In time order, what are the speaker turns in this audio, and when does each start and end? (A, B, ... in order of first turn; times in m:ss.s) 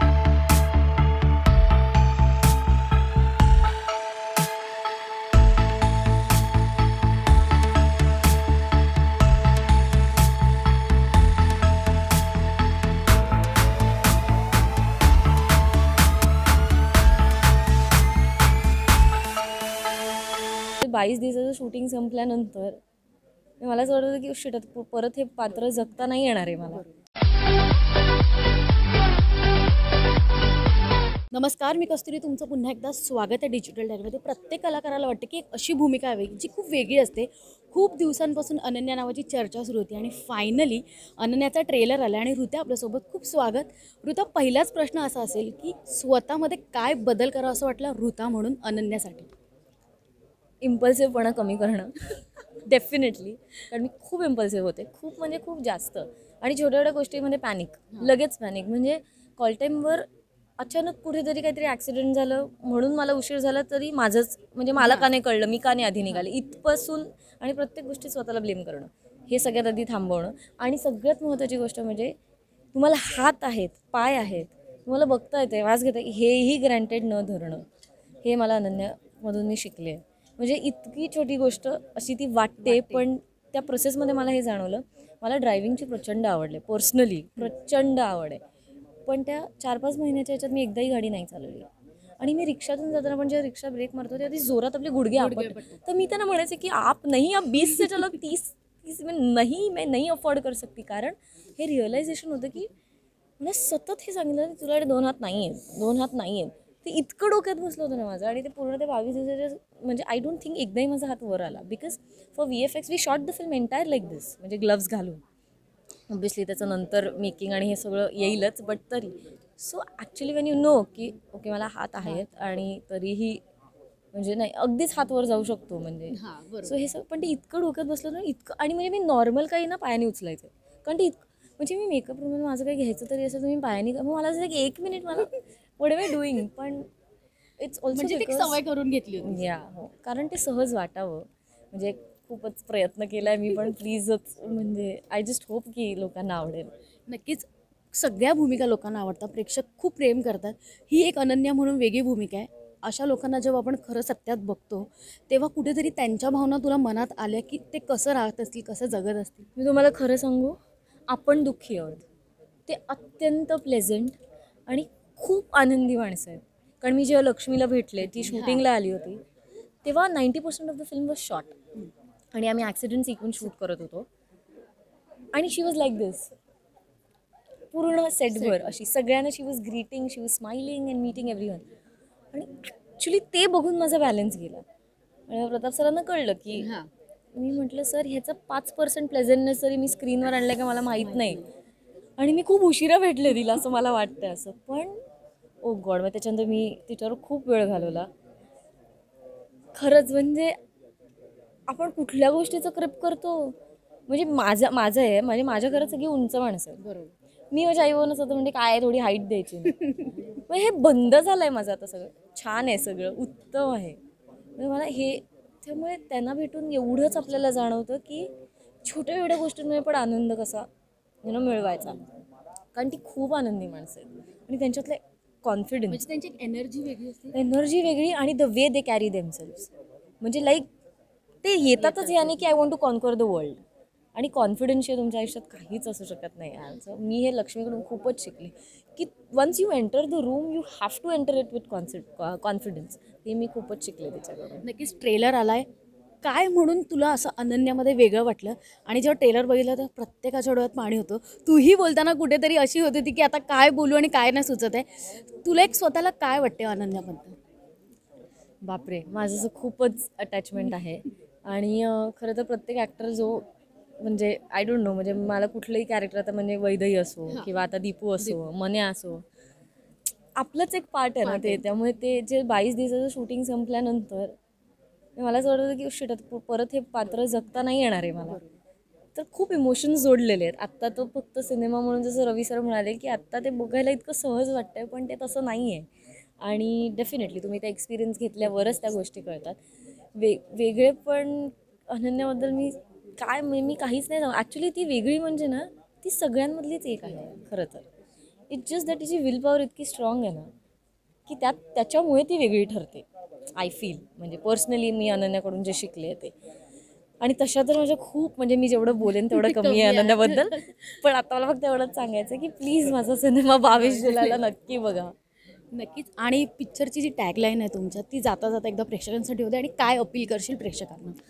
0:20.8-0:22.8 A
0:23.6-0:26.8 A
0:31.3-0:49.3 B
0:50.6-1:00.0 A
1:00.6-1:12.1 A
1:04.8-1:05.1 B
1:12.7-1:17.6 A
1:18.2-1:28.4 A
1:22.6-1:23.1 B
1:29.0-1:31.7 A
1:32.2-1:42.7 A
1:35.1-1:35.8 B
1:43.4-1:55.2 A
1:56.1-2:03.4 A
2:04.1-2:16.9 A
2:06.1-2:06.8 B
2:17.6-2:18.6 A
2:17.9-2:19.4 B
2:19.2-2:26.7 A
2:27.1-2:39.5 B
2:39.6-2:40.6 A
2:41.1-2:42.1 A
2:42.7-2:44.2 A
2:44.7-2:49.2 A
2:48.2-2:48.6 B
2:49.8-2:51.6 A
2:52.3-2:54.1 A
2:55.3-2:56.3 A
2:57.7-3:01.6 A
2:58.3-2:58.7 B
3:02.3-3:04.6 A
3:05.3-3:06.7 A
3:06.6-3:06.9 B
3:07.3-3:11.4 A
3:11.0-3:11.5 B
3:12.2-3:15.0 A
3:15.6-3:18.1 A
3:19.7-3:20.6 A
3:21.7-3:23.6 A
3:24.1-3:26.8 A
3:26.8-3:27.1 B
3:27.5-3:34.0 A
3:29.8-3:30.2 B
3:34.6-3:38.3 A
3:38.8-3:40.7 A
3:41.2-3:42.0 A
3:42.7-3:46.0 A
3:45.9-3:47.4 B
3:47.3-3:49.7 A
3:50.2-3:50.7 A
3:51.4-3:53.6 A
3:51.8-3:52.5 B
3:54.1-4:04.6 A
4:04.6-4:05.6 B
4:06.2-4:17.4 B
4:18.6-4:23.5 A
4:24.0-4:29.2 A
4:30.4-4:34.3 A
4:31.2-4:31.6 B
4:35.2-4:38.4 A
4:39.1-4:45.9 A
4:46.4-4:49.6 A
4:50.1-4:57.9 A
4:58.5-5:00.5 A
5:01.2-5:06.3 A
5:07.2-5:15.1 A
5:09.3-5:10.8 B
5:13.7-5:14.4 B
5:15.7-5:21.2 B